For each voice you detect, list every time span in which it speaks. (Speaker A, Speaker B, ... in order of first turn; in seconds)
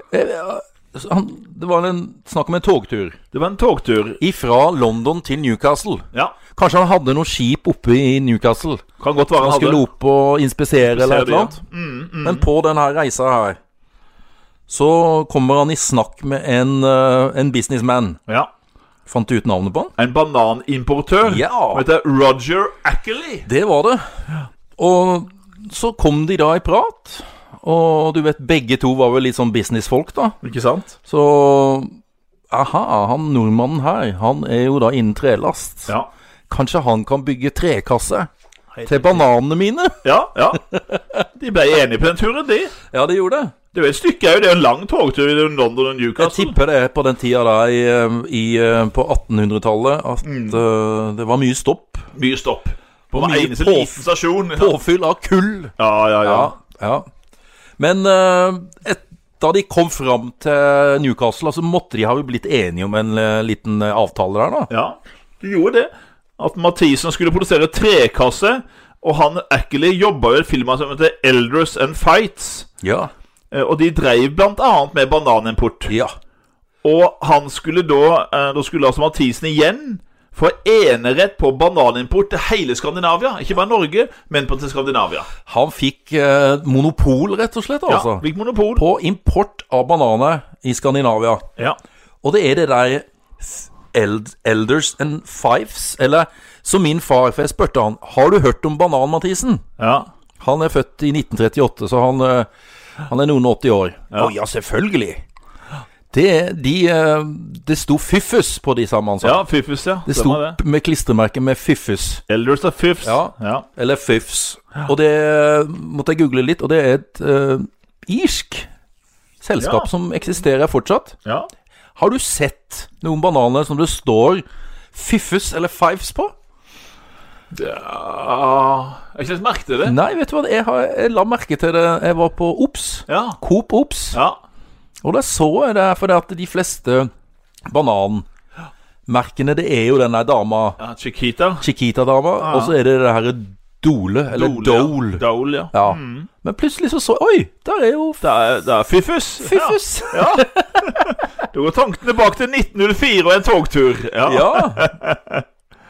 Speaker A: 0.1-3.2, 4.2-8.8, 9.4-11.6, 12.2-13.6, 14.7-18.2, 19.1-19.9, 21.2-21.8, 23.4-24.0, 24.8-30.4, 31.0-32.0, 32.5-35.9, 36.5-38.3, 38.8-41.2, 42.9-43.5, 46.2-52.1, 53.1-57.0, 57.8-64.7, 72.8-73.1, 75.9-76.1, 85.5-88.2, 88.8-91.5, 92.2-99.6, 100.4-102.5, 103.0-105.2, 106.1-109.4, 110.0-112.2, 113.0-118.7, 119.4-121.2, 122.0-126.3, 129.8-134.2, 135.0-137.1, 137.7-138.2, 139.1-140.8, 141.6-148.2, 149.4-151.1, 154.2-154.9
Speaker B: 3.3-4.2, 9.0-9.8, 10.9-12.5, 20.0-23.5, 30.4-30.9, 38.7-39.2, 40.0-40.6, 41.3-42.7, 43.7-46.5, 50.2-50.6, 52.1-54.7, 55.8-56.5, 64.7-72.7, 73.5-75.9, 76.8-85.3, 87.9-88.8, 99.8-100.1, 109.2-110.6, 112.3-113.7, 119.6-119.9, 127.5-129.9, 133.1-133.4, 134.1-134.4, 140.8-141.6, 142.4-142.7, 144.3-146.3, 148.2-155.4